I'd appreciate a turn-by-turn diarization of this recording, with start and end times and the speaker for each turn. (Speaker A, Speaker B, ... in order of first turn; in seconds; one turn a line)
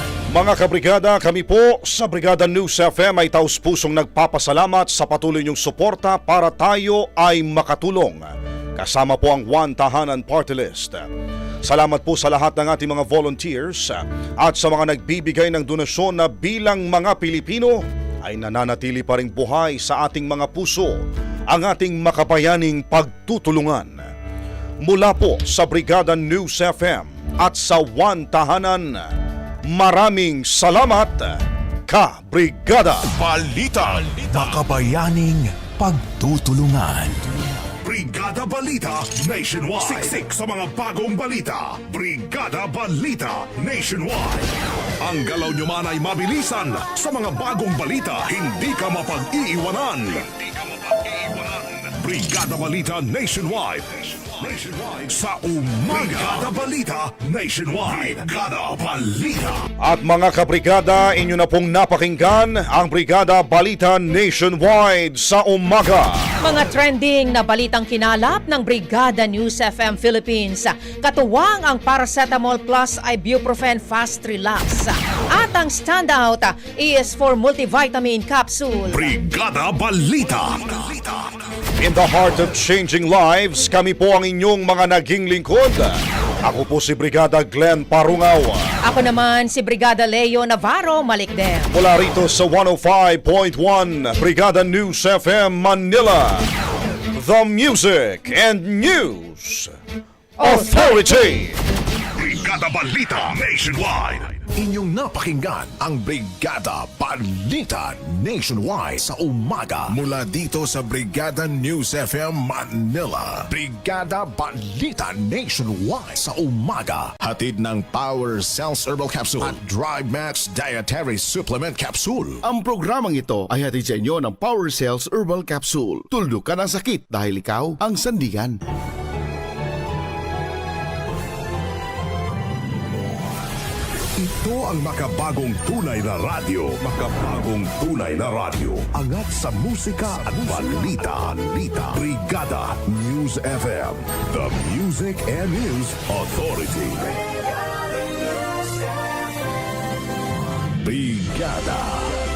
Speaker A: 0.3-11.1
Speaker A: 11.7-24.0
Speaker A: 24.9-29.1
Speaker A: 29.7-31.4
Speaker A: 31.9-33.1
Speaker B: 33.2-37.2
Speaker C: 37.8-44.5
Speaker C: 45.0-50.3
Speaker C: 50.9-59.6
Speaker A: 59.8-66.3
Speaker D: 66.4-79.1
Speaker C: 78.9-81.2
Speaker A: 81.8-88.6
Speaker D: 88.8-91.7
Speaker A: 91.7-96.5
Speaker A: 97.2-99.7
Speaker D: 100.4-101.2
Speaker A: 100.4-101.6
Speaker C: 102.2-104.4
Speaker B: 104.5-122.4
Speaker E: 122.4-128.6
Speaker C: 134.2-142.9
Speaker B: 139.1-139.4
Speaker B: 139.9-140.8
Speaker B: 142.9-144.5
Speaker C: 144.1-147.1
Speaker B: 150.8-152.1